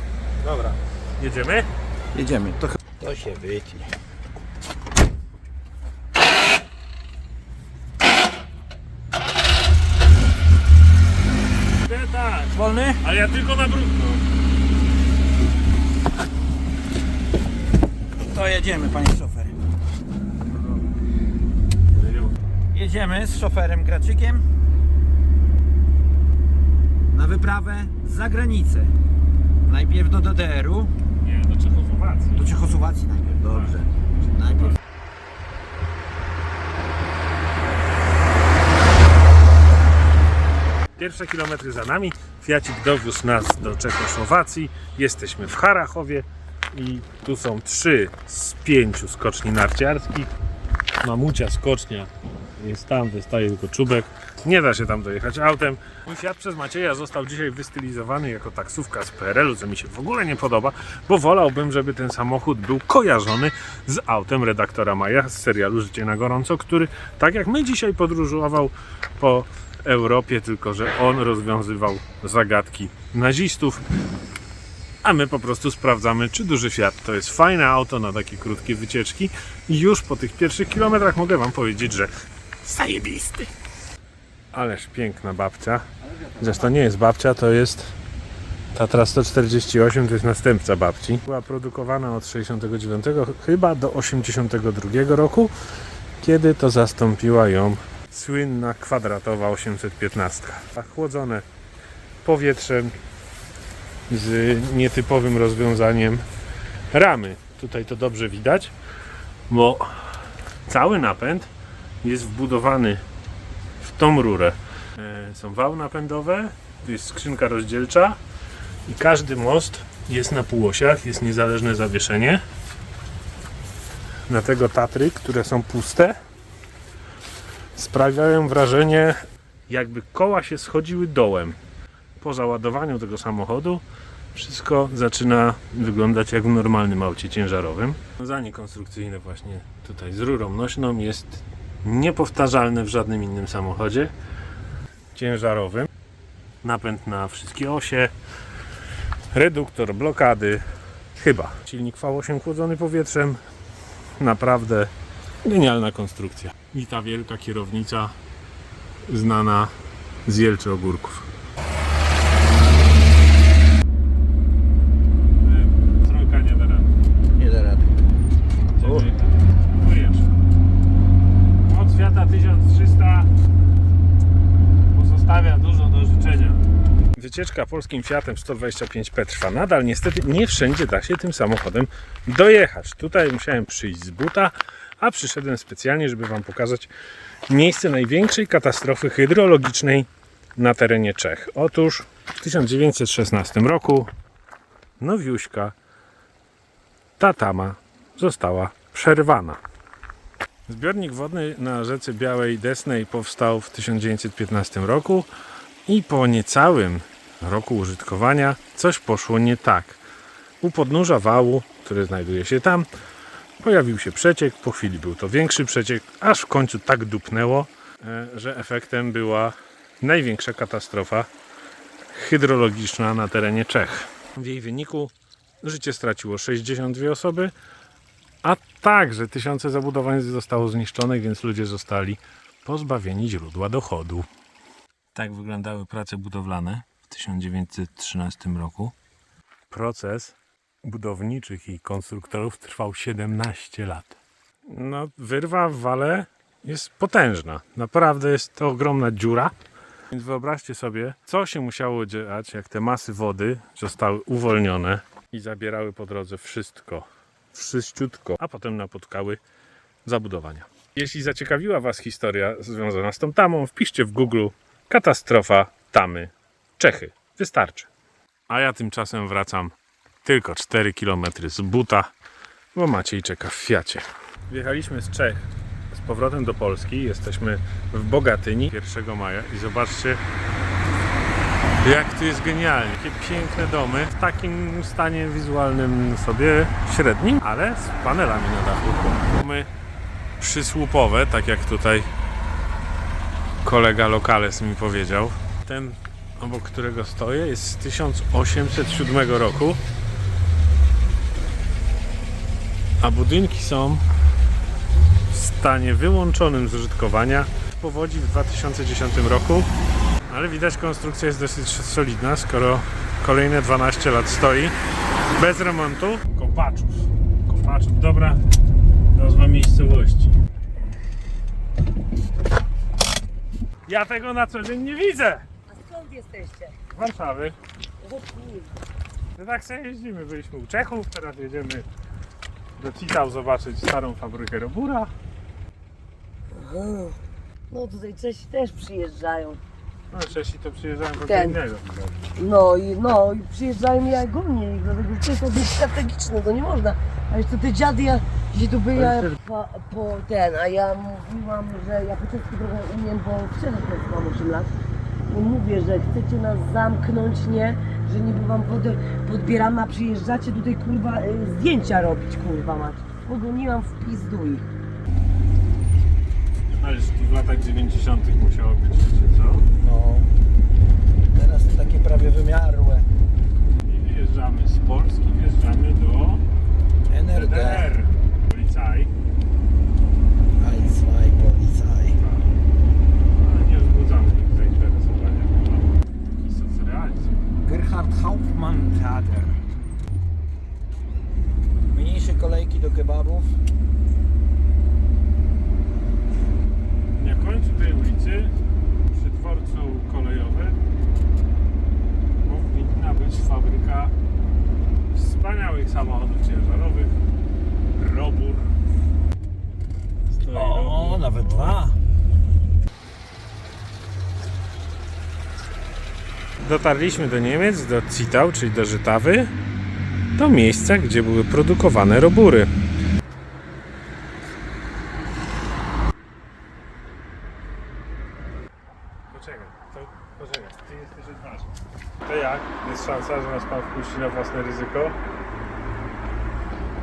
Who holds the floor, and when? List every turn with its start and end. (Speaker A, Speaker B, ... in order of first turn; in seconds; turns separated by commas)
Speaker A: 0.4-1.7, Speaker B: 2.1-3.9, Speaker A: 11.8-14.2, Speaker B: 12.5-13.0, Speaker B: 18.2-19.6, Speaker A: 21.9-22.4, Speaker B: 22.7-24.4, Speaker B: 27.1-28.9, Speaker B: 29.6-30.9, Speaker A: 31.2-32.4, Speaker B: 32.3-34.8, Speaker A: 33.5-34.8, Speaker A: 41.0-50.3, Speaker A: 51.0-73.8, Speaker A: 75.0-82.1, Speaker A: 82.6-83.5, Speaker A: 84.5-85.8, Speaker B: 86.0-86.8, Speaker A: 86.4-87.9, Speaker A: 88.7-95.5, Speaker A: 96.2-101.4, Speaker A: 102.2-102.9, Speaker A: 104.1-106.2, Speaker A: 106.9-108.7, Speaker A: 109.5-109.9, Speaker A: 110.7-111.5, Speaker A: 112.0-113.0, Speaker A: 113.8-118.2, Speaker A: 118.8-122.4, Speaker A: 124.3-126.2, Speaker A: 127.7-131.6, Speaker A: 132.2-144.1, Speaker A: 145.1-145.9, Speaker A: 146.6-148.1, Speaker A: 149.3-153.4, Speaker A: 154.2-154.9, Speaker A: 155.4-158.1, Speaker A: 159.1-159.7, Speaker A: 160.2-161.3, Speaker A: 165.4-166.9, Speaker B: 167.3-168.0, Speaker A: 168.8-170.3, Speaker B: 168.8-169.1, Speaker A: 171.6-173.3, Speaker A: 174.9-176.6, Speaker A: 177.1-186.9, Speaker A: 187.5-194.1, Speaker A: 195.0-195.7, Speaker A: 197.2-199.6, Speaker A: 200.7-205.3, Speaker A: 205.8-210.0, Speaker A: 210.6-212.9, Speaker A: 213.6-221.3, Speaker A: 222.1-227.5, Speaker A: 228.4-234.3, Speaker A: 235.1-238.9, Speaker A: 239.7-244.2, Speaker A: 244.7-249.5, Speaker A: 250.1-259.4, Speaker A: 260.0-267.9, Speaker A: 268.5-272.1, Speaker A: 272.7-280.2, Speaker A: 281.8-289.7, Speaker A: 290.4-292.1, Speaker A: 293.6-299.8, Speaker A: 303.0-304.0, Speaker A: 305.3-309.7, Speaker A: 310.3-314.7, Speaker A: 315.3-318.4, Speaker A: 319.1-320.4, Speaker A: 323.9-325.4, Speaker C: 325.7-326.7, Speaker A: 326.9-327.6, Speaker C: 328.0-328.7, Speaker A: 329.4-331.9, Speaker A: 332.8-335.1, Speaker C: 336.5-337.2, Speaker C: 337.7-339.6, Speaker A: 340.1-342.3, Speaker C: 341.2-341.6, Speaker C: 342.4-354.7, Speaker B: 349.0-349.3, Speaker C: 355.3-364.7, Speaker A: 366.8-369.7, Speaker B: 369.8-370.3, Speaker B: 371.3-373.1, Speaker A: 373.8-376.4, Speaker B: 377.1-377.9, Speaker A: 377.3-379.1, Speaker B: 380.6-382.2, Speaker A: 382.1-382.5, Speaker A: 383.4-387.4, Speaker B: 387.6-389.6, Speaker B: 391.9-393.6, Speaker A: 397.1-398.5, Speaker A: 399.1-400.8, Speaker A: 402.4-404.1, Speaker A: 405.1-407.1, Speaker A: 407.9-408.7, Speaker A: 410.3-411.8, Speaker B: 410.5-412.0, Speaker A: 416.6-419.5, Speaker A: 420.4-422.7, Speaker A: 429.3-431.7, Speaker A: 432.2-435.2